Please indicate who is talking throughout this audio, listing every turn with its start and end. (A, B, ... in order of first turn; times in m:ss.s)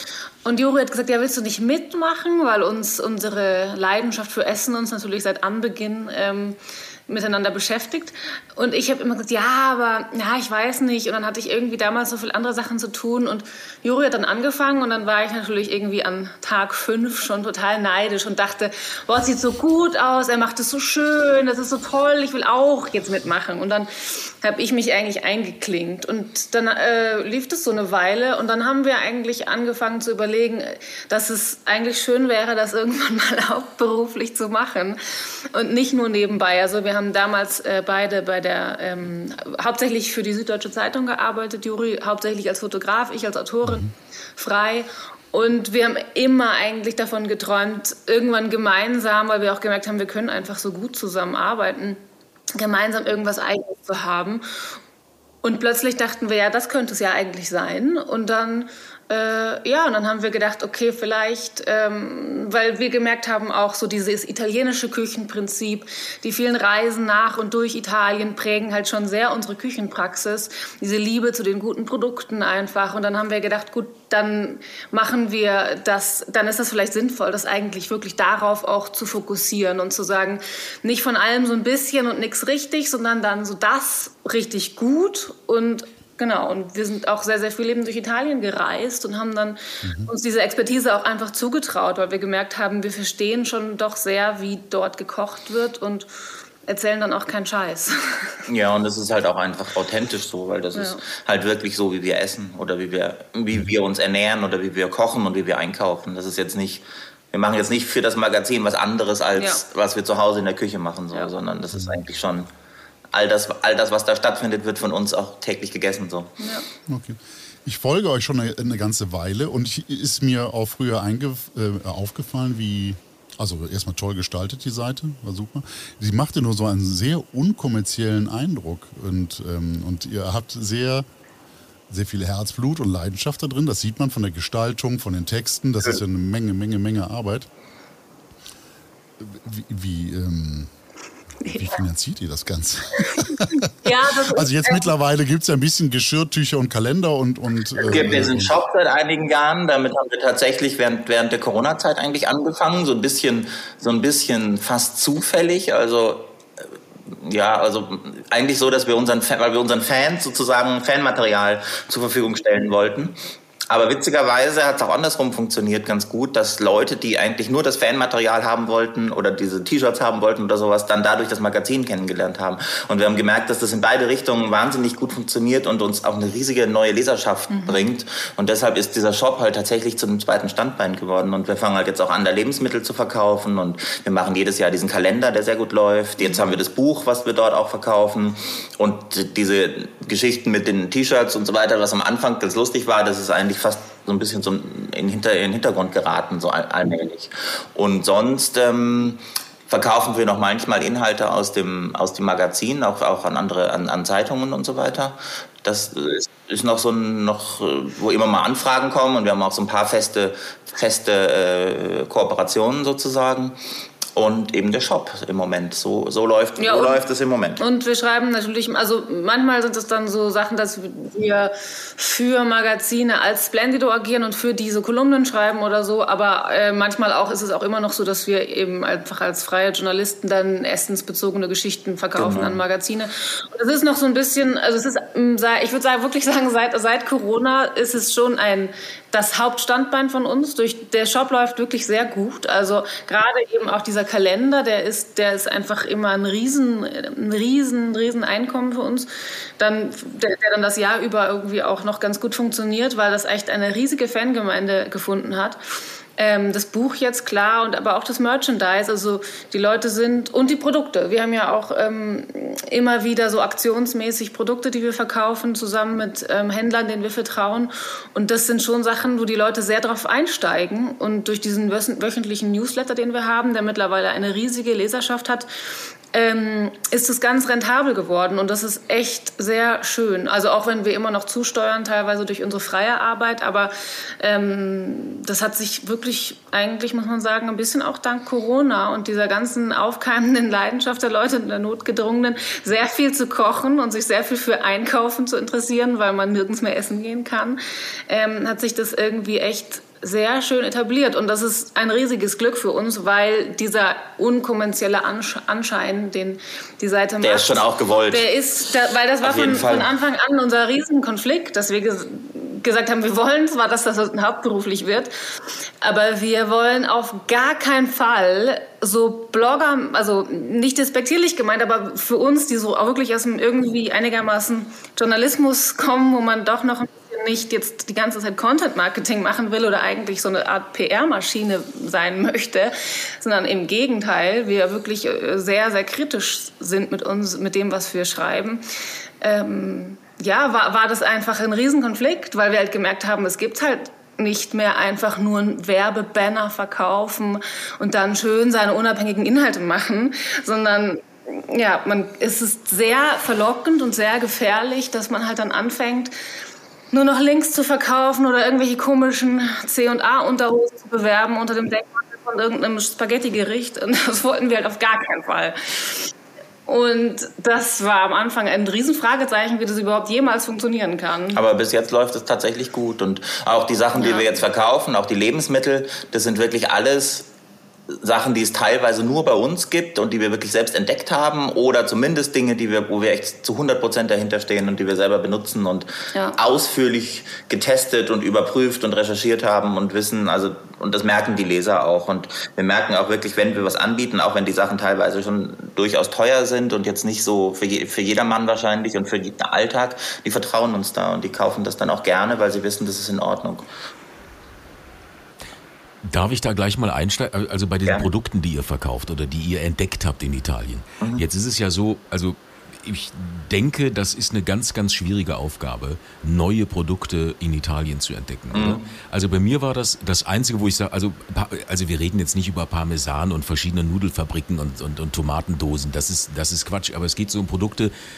0:00.4-0:52.0 A
0:52.5-0:54.8 A
0:55.4-1:36.1 A
1:29.8-1:30.1 B
1:36.6-1:38.4 A
1:38.5-1:52.5 C
1:40.7-1:41.0 A
1:49.4-1:49.6 A
1:53.1-1:56.4 C
1:56.4-1:56.7 A
1:56.9-2:11.1 B
2:11.9-2:17.5 B
2:19.2-2:20.7 B
2:21.5-2:28.6 B
2:23.2-2:24.9 A
2:27.8-2:36.4 C
2:37.2-2:43.2 C
2:43.7-3:33.6 C
2:57.5-2:57.9 A
3:06.2-3:06.6 A
3:34.2-3:37.6 C
3:36.6-3:37.0 A
3:37.6-4:15.6 A
3:52.2-3:52.6 C
4:16.2-4:35.5 A
4:36.1-5:15.1 A
5:07.2-5:08.3 C
5:09.2-5:09.9 C
5:15.8-5:38.6 A
5:39.2-5:56.1 A
5:56.9-6:06.1 A
6:06.7-6:11.4 A
6:11.3-6:17.3 C
6:14.0-6:14.4 A
6:18.0-6:43.7 C
6:46.0-7:07.9 D
6:58.5-6:58.9 C